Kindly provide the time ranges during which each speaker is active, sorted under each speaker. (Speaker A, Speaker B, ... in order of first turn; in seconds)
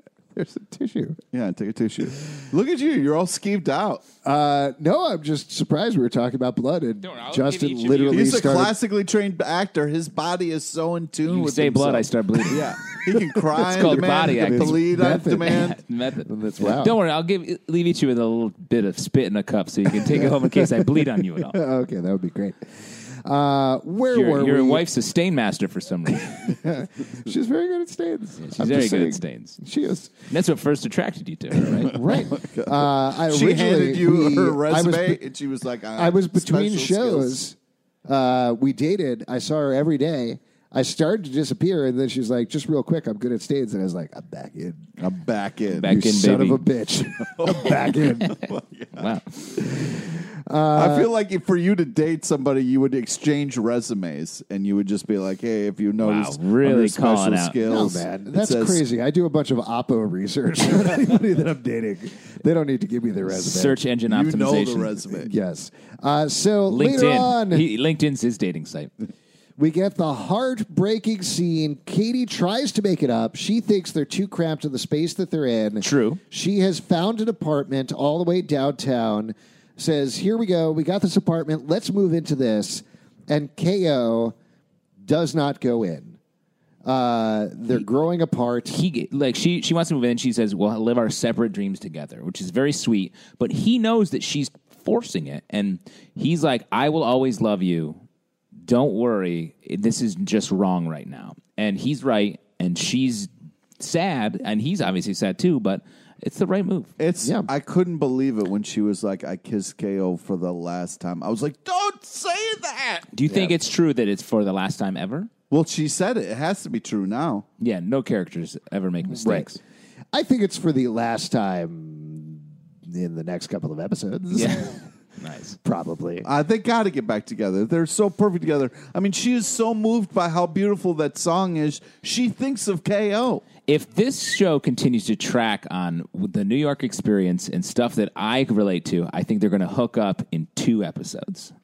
Speaker A: 0.3-1.2, 4.2-8.8, 13.6-15.7, 16.3-17.0, 20.1-24.9, 26.3-30.1, 31.9-35.2, 36.0-44.9, 45.8-48.4, 49.6-51.1, 57.6-63.8, 65.1-67.7, 69.6-84.3, 85.0-86.2, 86.8-88.8, 107.2-107.5, 113.3-113.5, 119.1-119.5, 120.1-124.8, 125.6-126.3
Speaker B: 1.3-4.0, 8.1-15.8, 32.3-37.4, 45.0-46.0, 47.2-49.1, 50.7-58.8, 64.1-65.3, 107.0-113.1, 115.5-117.5, 126.2-133.4
Speaker C: 7.0-8.5, 11.3-12.7, 13.6-14.8, 15.4-21.6, 24.1-26.5, 28.4-29.6, 30.3-32.0, 45.8-46.7, 49.0-49.5, 56.0-57.6, 63.3-65.0, 66.7-68.9, 75.8-76.2, 88.7-98.0, 98.6-106.9, 113.1-115.3, 117.6-119.6, 124.3-125.6, 133.7-141.5